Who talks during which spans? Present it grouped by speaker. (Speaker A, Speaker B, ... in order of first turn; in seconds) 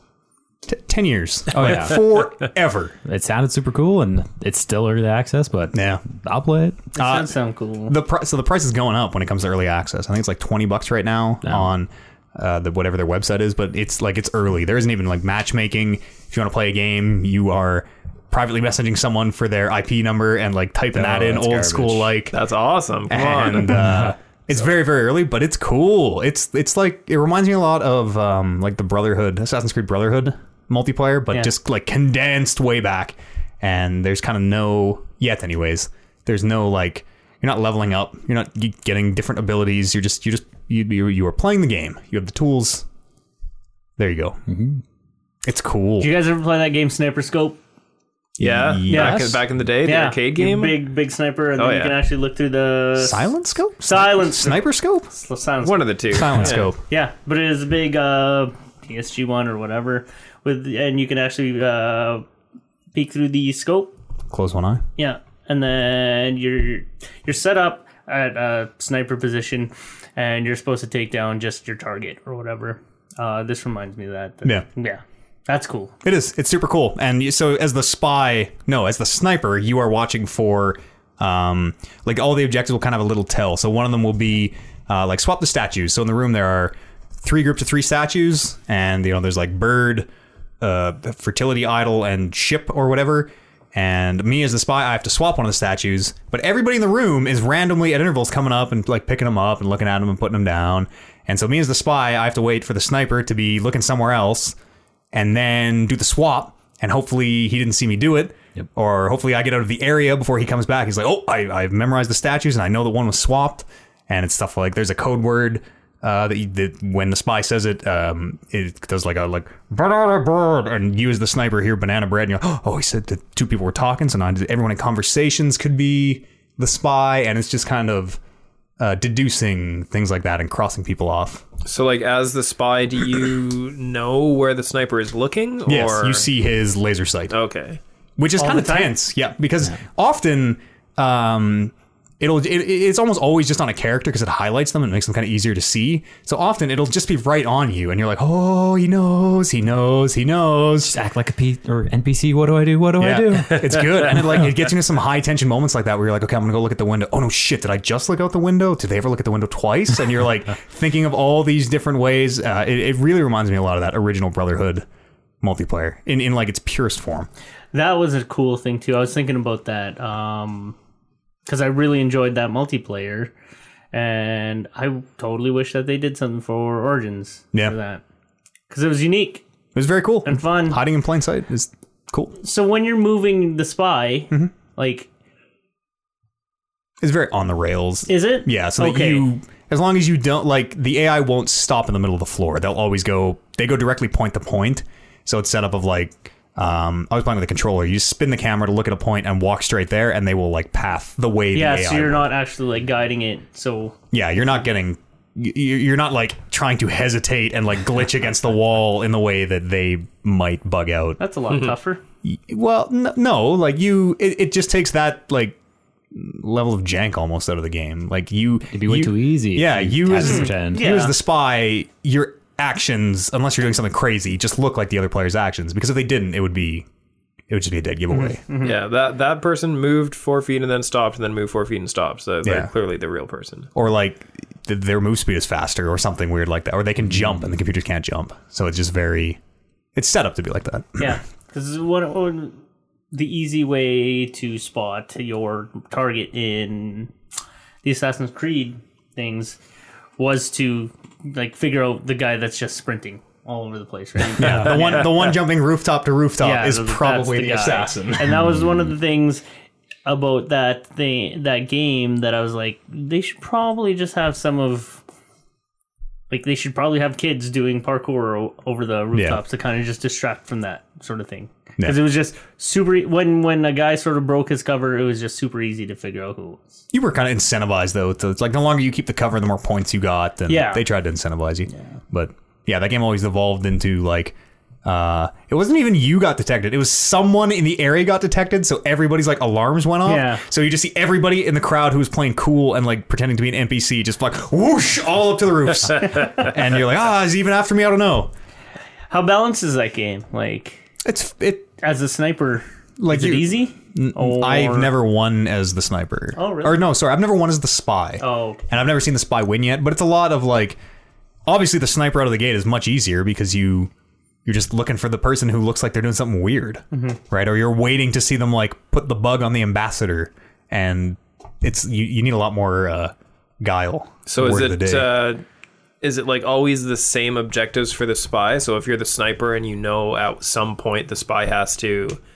Speaker A: 0.7-3.0, 5.7-6.0, 7.0-7.3, 7.9-22.4, 23.1-42.8, 44.0-44.4, 45.4-46.1, 48.4-49.4, 53.0-55.1, 56.1-56.8, 64.3-64.8, 76.0-90.1, 90.6-104.6, 105.1-128.2, 128.8-131.4, 135.7-137.3, 138.2-150.9, 153.0-164.8, 165.4-167.3, 179.7-182.3, 187.0-202.3, 204.1-211.2, 212.2-215.6, 216.1-226.8, 227.5-228.4, 232.4-232.7, 233.7-239.4, 239.9-241.2, 254.4-258.5, 269.1-269.4, 276.9-298.3, 301.0-301.7, 303.0-310.8, 311.4-313.9, 314.4-325.1
Speaker B: 1.5-2.0, 3.0-6.8, 11.4-11.7, 20.9-22.1, 44.5-44.8, 150.8-154.3, 218.7-220.8
Speaker C: 7.0-7.9, 46.0-47.6, 48.9-53.3, 53.8-55.9, 56.9-62.2, 62.9-63.9, 65.0-75.9, 138.4-138.9, 167.7-170.8, 171.4-173.3, 173.9-178.0, 178.7-179.4, 180.2-180.8, 182.4-185.1, 188.1-189.3, 201.5-203.9, 211.2-212.0, 220.2-221.1, 228.1-228.7, 241.0-242.6, 243.1-247.1, 247.8-249.6, 250.2-255.3, 256.4-259.4, 260.1-265.0, 266.3-276.8, 280.5-280.8, 290.0-290.4, 299.1-300.8, 301.8-304.9, 306.4-306.8, 308.2-308.6, 316.9-317.2
Speaker D: 22.3-23.9, 48.4-50.8, 51.6-52.0, 55.6-56.7, 131.6-136.3, 137.3-137.8, 153.5-154.5, 228.6-233.7, 324.3-325.4, 326.0-332.2